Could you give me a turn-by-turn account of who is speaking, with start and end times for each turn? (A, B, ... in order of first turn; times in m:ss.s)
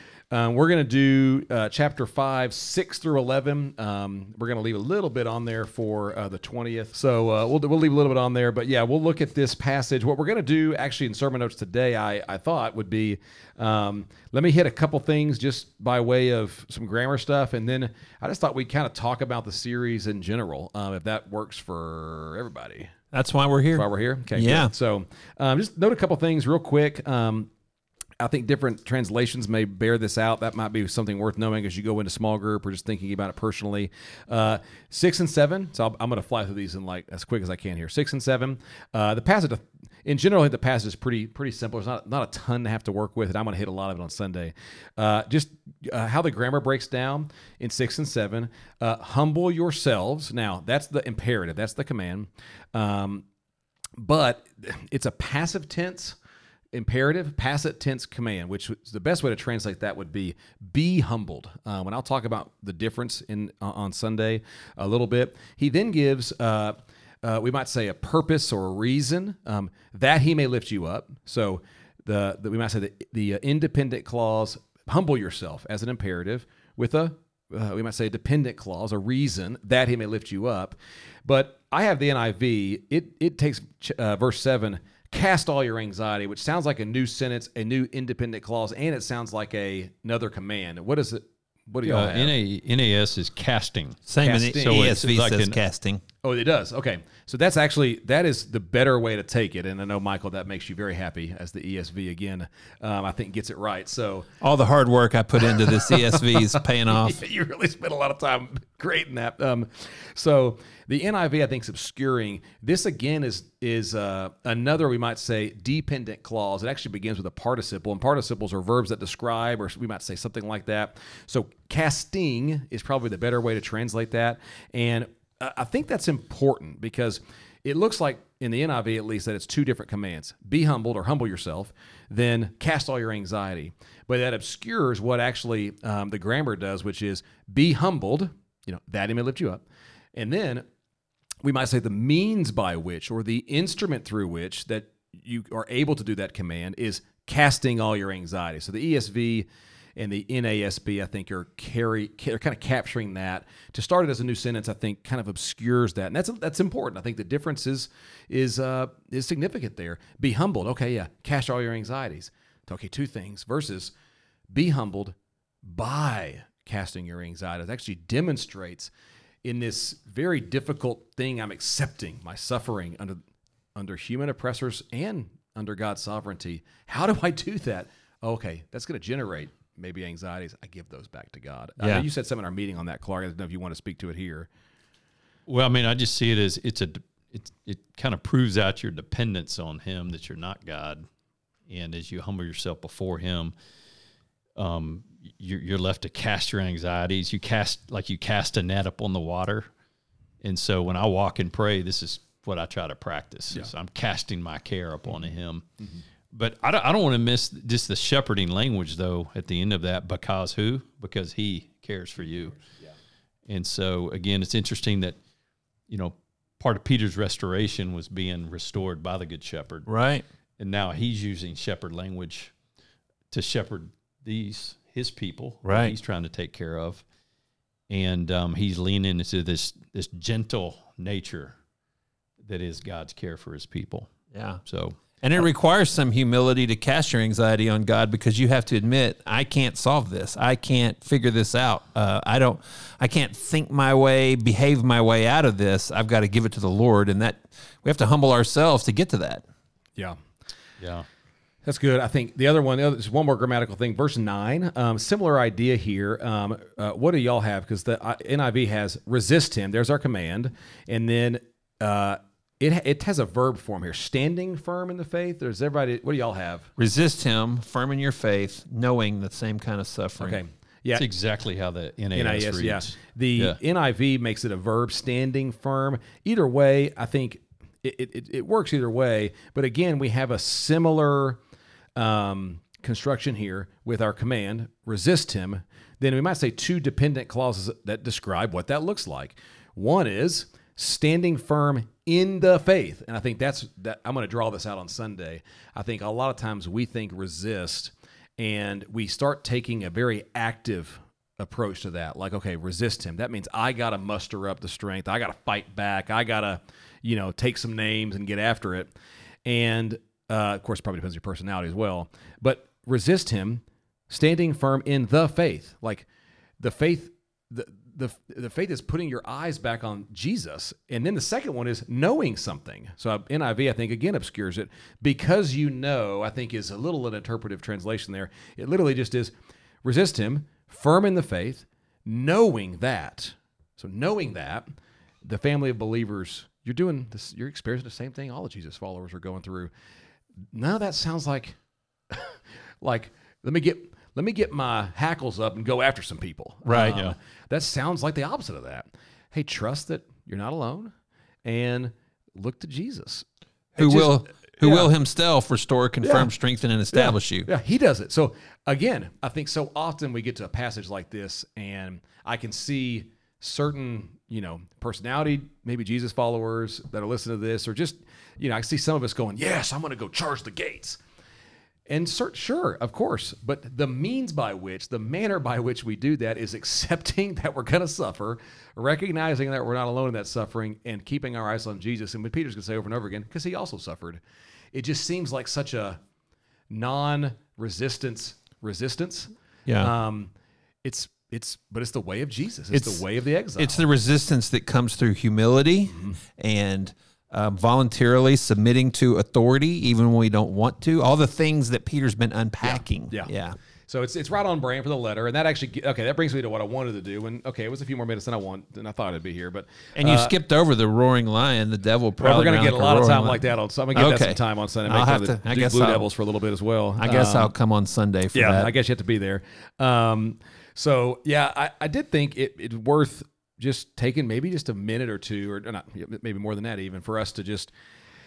0:00.3-0:22.9 A
0:23.1-0:24.7 B
0:23.7-0:27.5 A
0:28.2-0:53.2 A
0:54.0-0:56.2 A
0:56.7-1:32.3 A
1:31.8-1:35.6 C
1:34.1-1:36.0 B
1:34.2-1:34.9 A
1:36.2-1:44.3 A
1:44.4-1:47.2 B
1:45.4-2:20.7 A
2:21.4-2:43.9 A
2:44.5-2:48.9 A
2:49.4-2:53.2 A
2:53.8-3:04.5 A
3:01.8-3:02.0 B
3:05.5-3:11.0 C
3:11.7-3:13.5 C
3:14.6-3:19.7 C
3:20.4-3:25.6 C
3:26.3-3:32.6 C
3:33.5-3:35.2 C
3:35.9-3:39.9 C
3:39.8-3:40.2 B
3:40.6-3:42.5 C
3:43.3-3:47.0 C
3:45.6-3:45.9 B
3:47.9-3:51.6 C
3:52.4-3:54.1 C
3:54.3-3:54.6 B
3:54.7-3:55.0 C
3:55.2-4:09.4 B
4:10.8-4:11.0 C
4:11.6-4:26.7 A
4:26.8-4:30.4 B
4:30.2-4:31.0 A
4:30.9-4:33.6 C
4:32.1-4:41.4 A
4:42.0-5:08.9 A
5:09.4-5:16.0 A
5:16.6-5:29.3 A
5:29.8-5:34.7 A
5:35.2-5:39.7 A
5:40.5-5:41.6 A
5:42.1-5:50.9 A
5:46.6-5:47.0 B
5:51.4-5:53.2 A
5:53.8-5:57.5 B
5:53.8-5:54.9 A
5:56.0-5:56.3 A
5:56.9-6:11.0 A
6:11.9-6:24.2 A
6:24.7-6:26.0 A
6:26.7-6:30.3 A
6:29.7-6:29.9 B
6:30.8-6:33.8 A
6:32.7-6:33.0 B
6:33.6-6:43.6 B
6:42.6-6:43.3 A
6:43.9-6:50.3 A
6:50.0-6:56.1 B
6:52.2-6:57.5 A
6:57.0-6:58.7 B
6:58.3-7:07.7 A